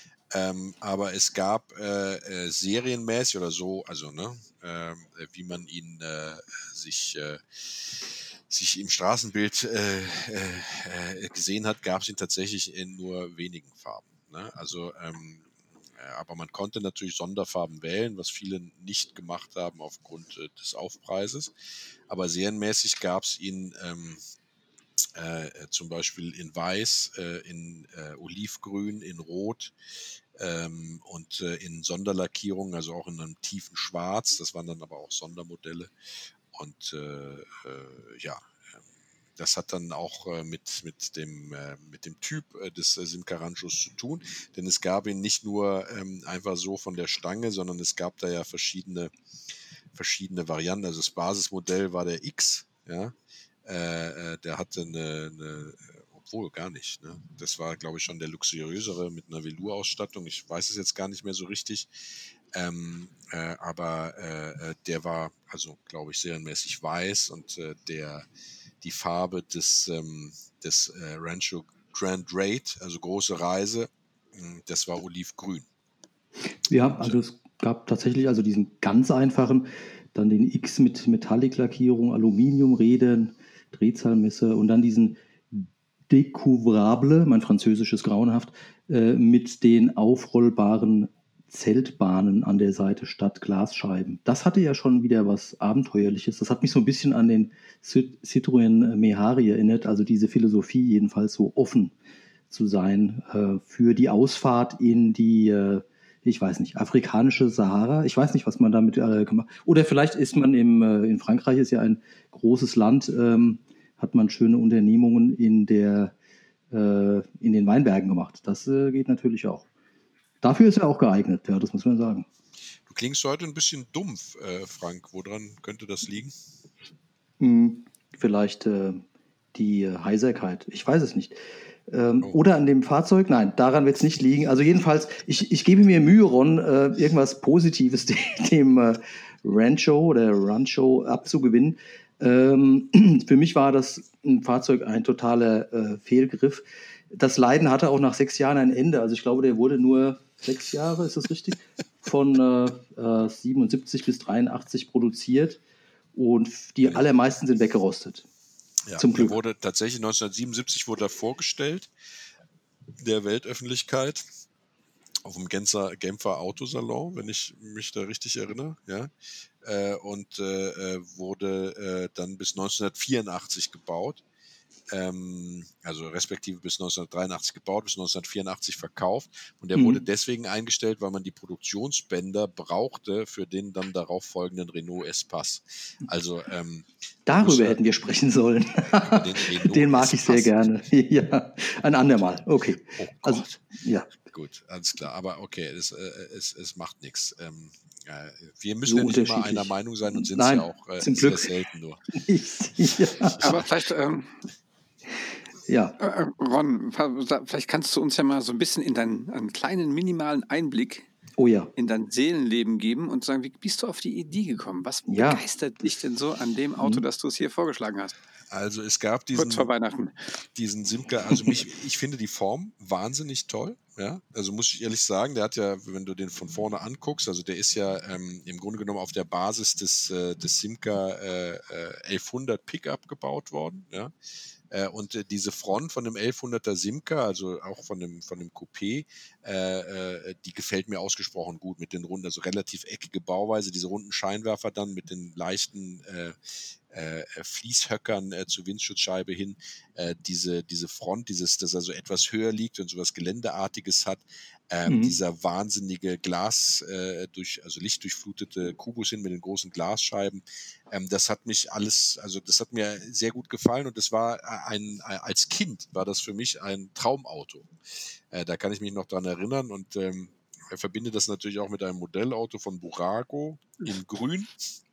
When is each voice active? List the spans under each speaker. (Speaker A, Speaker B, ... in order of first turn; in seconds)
Speaker A: 0.3-21.5, 22.1-24.2, 25.1-29.7, 30.4-35.9, 36.5-38.8, 39.4-49.1, 49.9-61.9, 62.5-68.2, 68.8-75.7, 76.8-77.2, 122.9-126.3, 158.9-161.9, 163.0-164.2, 165.2-169.1, 169.6-174.2, 174.9-187.8, 189.0-190.5, 193.0-193.6, 194.2-202.0, 203.2-203.7, 218.5-219.7, 220.6-234.1, 234.7-267.7, 268.3-274.5
Speaker B: 76.7-101.9, 102.5-116.1, 116.7-119.7, 120.4-122.2, 127.4-131.3, 131.9-155.6, 156.1-158.3, 159.0-159.4, 179.7-180.0, 187.3-194.1, 198.9-201.5, 202.1-203.4, 205.7-205.9, 211.4-211.7, 215.1-215.4, 254.9-255.2
Speaker C: 203.4-204.3, 206.0-211.1, 211.8-218.1, 219.3-220.1